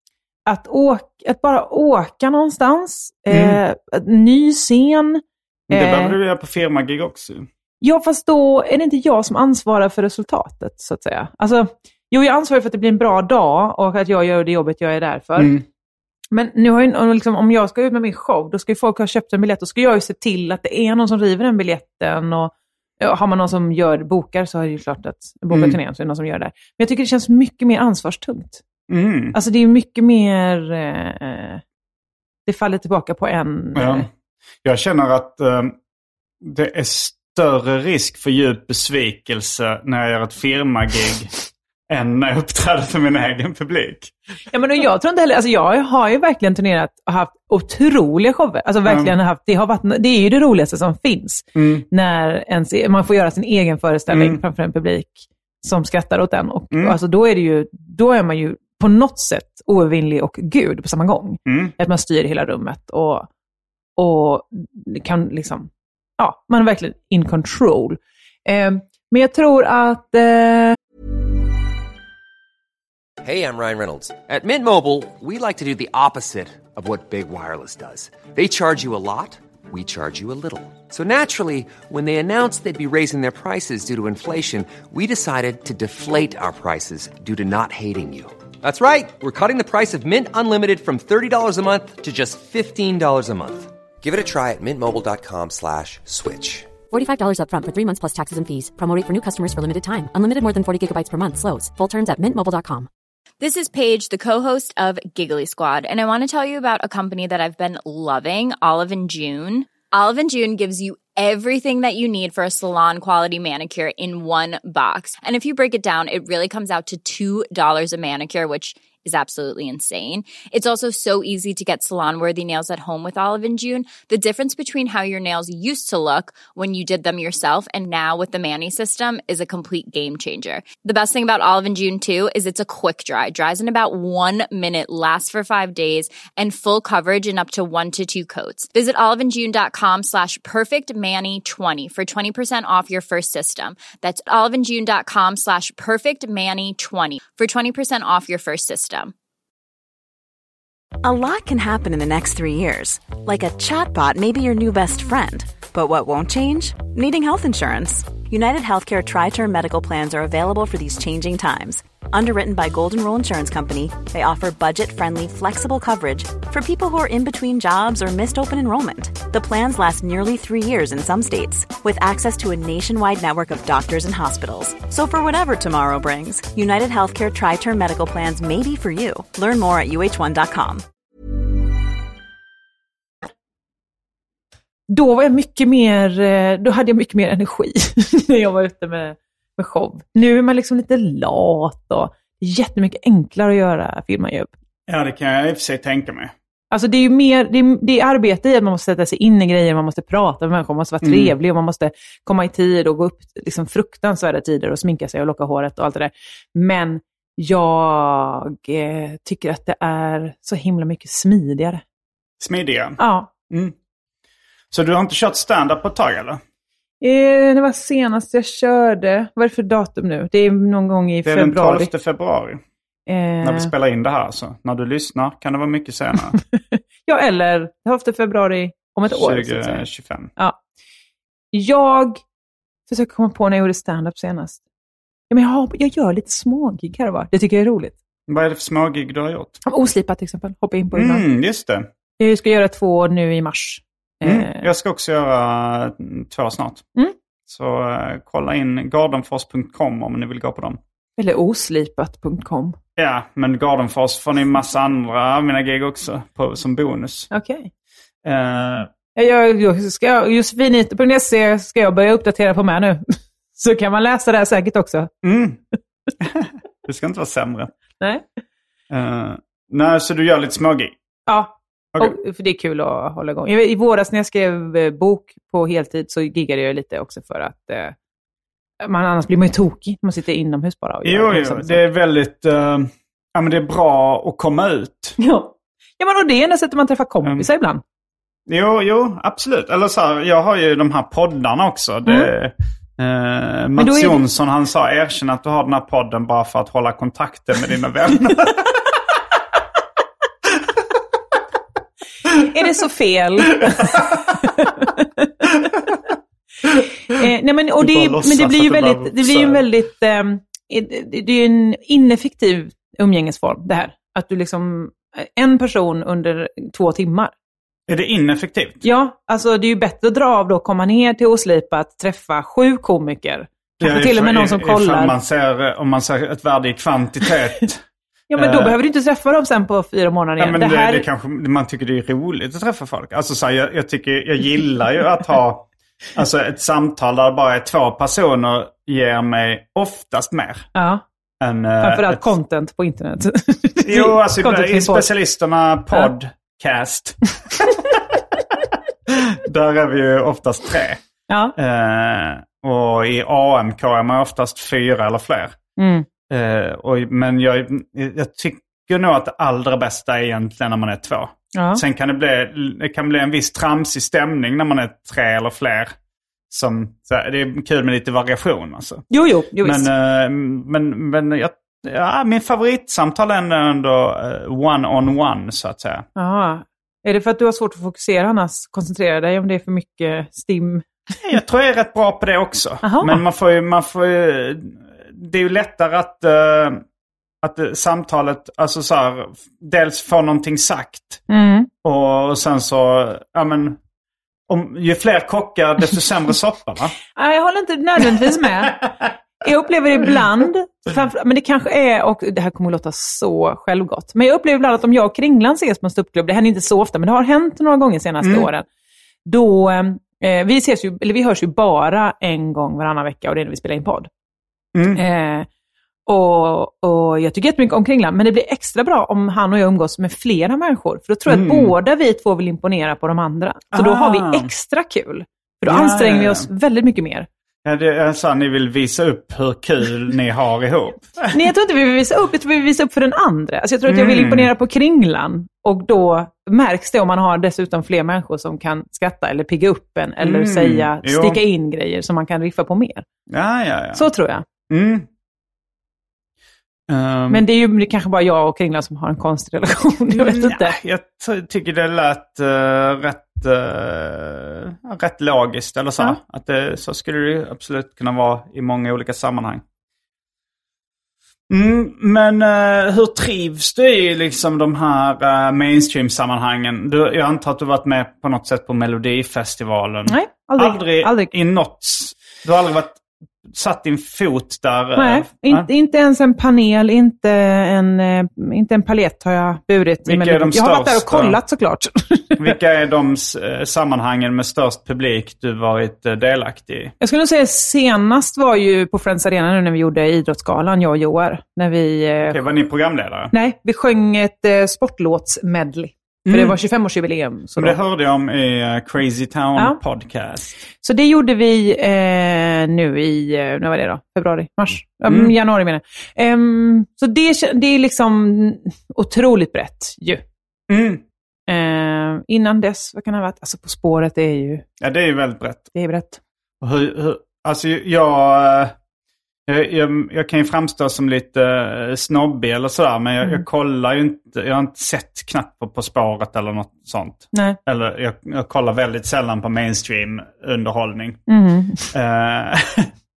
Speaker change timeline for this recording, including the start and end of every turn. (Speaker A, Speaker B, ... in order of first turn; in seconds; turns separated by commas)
Speaker A: 0.5-6.1, Speaker B: 3.3-3.6, Speaker B: 5.7-7.5, Speaker A: 7.8-15.5, Speaker B: 15.4-15.6, Speaker A: 16.3-28.6, Speaker B: 25.5-25.8, Speaker B: 28.9-29.4, Speaker A: 29.3-31.6, Speaker A: 32.5-34.1, Speaker B: 33.7-34.1, Speaker B: 34.6-35.7, Speaker B: 36.4-41.4, Speaker B: 41.9-44.1, Speaker A: 44.5-63.3, Speaker B: 48.9-49.1, Speaker B: 51.5-51.9, Speaker B: 54.1-54.4, Speaker B: 56.7-57.0, Speaker B: 61.5-61.7, Speaker A: 64.0-70.8, Speaker C: 73.2-96.7, Speaker D: 96.9-102.9, Speaker E: 103.4-149.1, Speaker F: 151.0-180.8, Speaker A: 184.9-194.5, Speaker B: 194.9-196.3, Speaker A: 196.7-211.8, Speaker B: 201.0-201.3, Speaker B: 212.4-213.0, Speaker A: 213.0-213.3, Speaker B: 214.7-216.4, Speaker A: 217.0-221.9, Speaker B: 221.2-222.6, Speaker A: 223.1-223.7, Speaker B: 223.4-226.4, Speaker A: 226.6-229.8, Speaker B: 229.1-230.3, Speaker A: 231.5-232.2, Speaker A: 232.9-234.6, Speaker A: 235.3-237.9, Speaker B: 238.3-239.6, Speaker A: 239.7-241.2, Speaker B: 240.9-241.9, Speaker A: 242.2-244.6, Speaker B: 244.2-246.8, Speaker B: 247.5-250.8, Speaker A: 251.2-252.8, Speaker B: 252.9-257.3, Speaker A: 257.3-257.7, Speaker B: 258.2-258.9, Speaker A: 259.1-265.1, Speaker B: 265.2-265.6, Speaker B: 266.2-267.7, Speaker B: 268.9-270.9, Speaker A: 271.3-277.9, Speaker A: 278.8-281.8, Speaker B: 281.1-285.2, Speaker A: 285.2-287.8, Speaker B: 288.5-298.6, Speaker A: 292.1-292.3, Speaker A: 293.8-294.2, Speaker A: 302.3-305.5, Speaker A: 307.1-317.3, Speaker B: 307.8-309.6, Speaker B: 317.9-318.8, Speaker A: 318.8-325.1, Speaker B: 323.8-327.8, Speaker A: 328.3-331.0, Speaker B: 328.4-328.8, Speaker B: 330.4-340.7, Speaker A: 340.7-341.0, Speaker B: 341.4-342.3, Speaker A: 341.8-345.1, Speaker B: 343.8-347.8, Speaker B: 349.1-351.0, Speaker A: 351.3-351.6, Speaker B: 351.6-355.6, Speaker A: 355.8-356.1, Speaker B: 356.3-365.9, Speaker A: 361.6-361.8, Speaker B: 366.5-369.1, Speaker A: 369.1-369.9, Speaker B: 369.6-376.1, Speaker A: 376.1-380.9, Speaker B: 381.2-386.8, Speaker A: 382.8-383.2, Speaker B: 387.4-391.2, Speaker A: 391.3-391.7, Speaker B: 391.8-393.8, Speaker B: 394.5-396.9, Speaker A: 397.1-408.6, Speaker B: 408.2-408.5, Speaker A: 409.2-414.1, Speaker B: 414.7-415.0, Speaker A: 414.9-415.5, Speaker A: 416.1-427.3, Speaker B: 421.3-421.7, Speaker B: 423.7-424.5, Speaker B: 425.6-426.5, Speaker B: 427.6-431.4, Speaker A: 431.3-443.1, Speaker B: 433.9-434.5, Speaker B: 440.2-441.4, Speaker B: 443.3-444.1, Speaker A: 443.9-444.4, Speaker B: 444.7-445.1, Speaker B: 446.9-447.4, Speaker A: 447.3-450.8, Speaker B: 450.2-459.6, Speaker B: 461.5-475.7, Speaker A: 470.1-471.3, Speaker A: 474.9-482.6, Speaker B: 480.1-481.4, Speaker B: 482.4-486.9, Speaker A: 487.0-492.4, Speaker B: 492.3-493.3, Speaker A: 493.3-497.8, Speaker B: 496.3-496.6, Speaker B: 497.6-500.6, Speaker A: 500.8-510.2, Speaker B: 505.1-505.3, Speaker B: 510.7-511.0, Speaker A: 511.5-514.6, Speaker B: 514.8-515.7, Speaker A: 515.7-516.2, Speaker B: 516.6-518.7, Speaker B: 519.5-531.2, Speaker A: 531.3-531.9, Speaker B: 531.9-532.9